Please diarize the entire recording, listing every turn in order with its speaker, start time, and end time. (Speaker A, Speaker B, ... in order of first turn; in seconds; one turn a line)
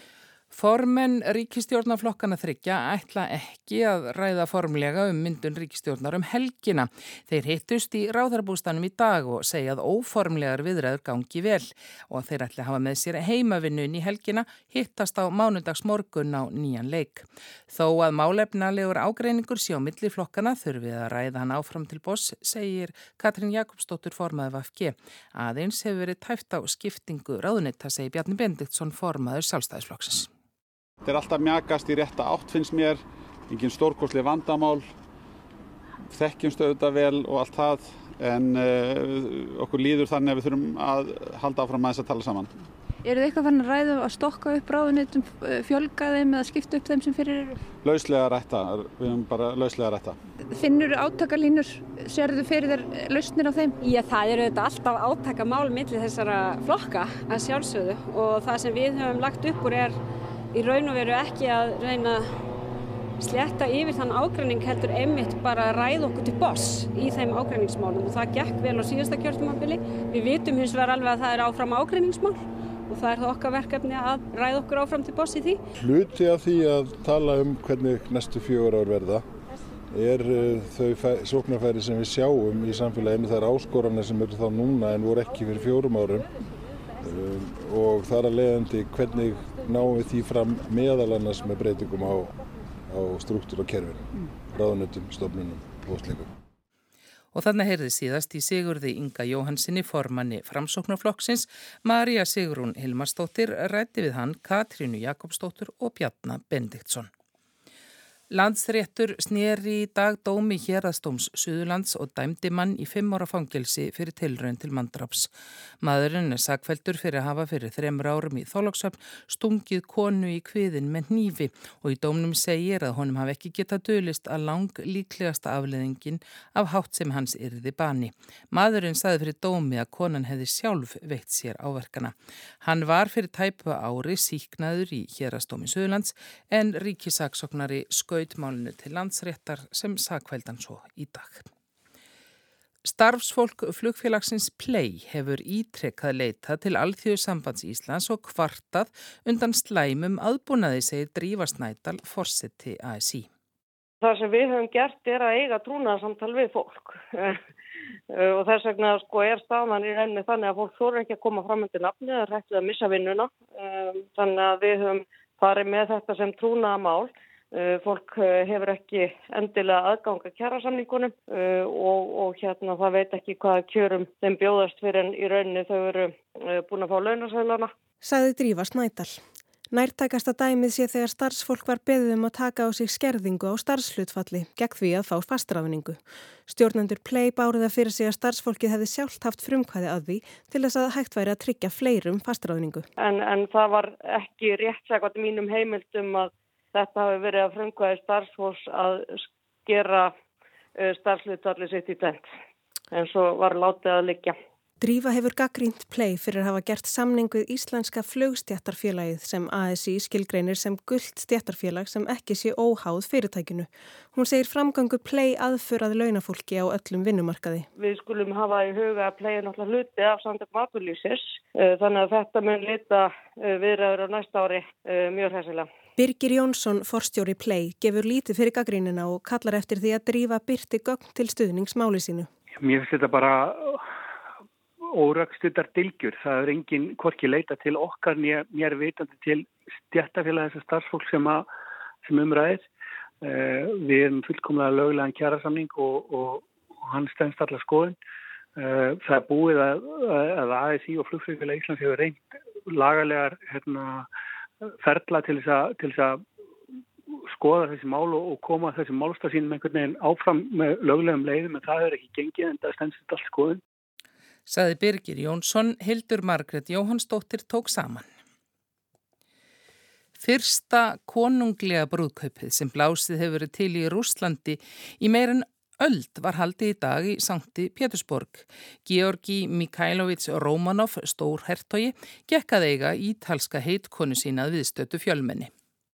Speaker A: 0.5-30.3
Speaker B: 31.1-34.9
Speaker B: 36.1-42.5
Speaker C: 43.0-47.6
Speaker B: 47.8-50.2
Speaker C: 50.5-53.8
Speaker D: 53.8-60.0
Speaker D: 60.5-62.3
Speaker D: 63.2-75.6
Speaker E: 75.8-79.2
Speaker E: 79.9-86.3
Speaker E: 87.0-92.4
Speaker E: 92.9-96.3
Speaker A: 97.3-107.1
Speaker A: 108.3-115.3
Speaker A: 115.8-141.5
Speaker A: 142.8-153.3
Speaker F: 154.0-157.4
Speaker F: 158.1-177.7
Speaker G: 178.0-192.9
Speaker F: 193.0-200.1
Speaker F: 200.8-202.2
Speaker F: 202.9-204.4
Speaker G: 204.8-217.7
Speaker F: 217.8-225.7
Speaker G: 226.0-232.3
Speaker H: 232.6-233.8
Speaker H: 234.9-241.5
Speaker H: 242.0-242.7
Speaker H: 243.2-248.0
Speaker H: 248.6-254.1
Speaker H: 254.6-256.2
Speaker H: 257.3-263.6
Speaker A: 264.5-268.1
Speaker A: 270.2-285.5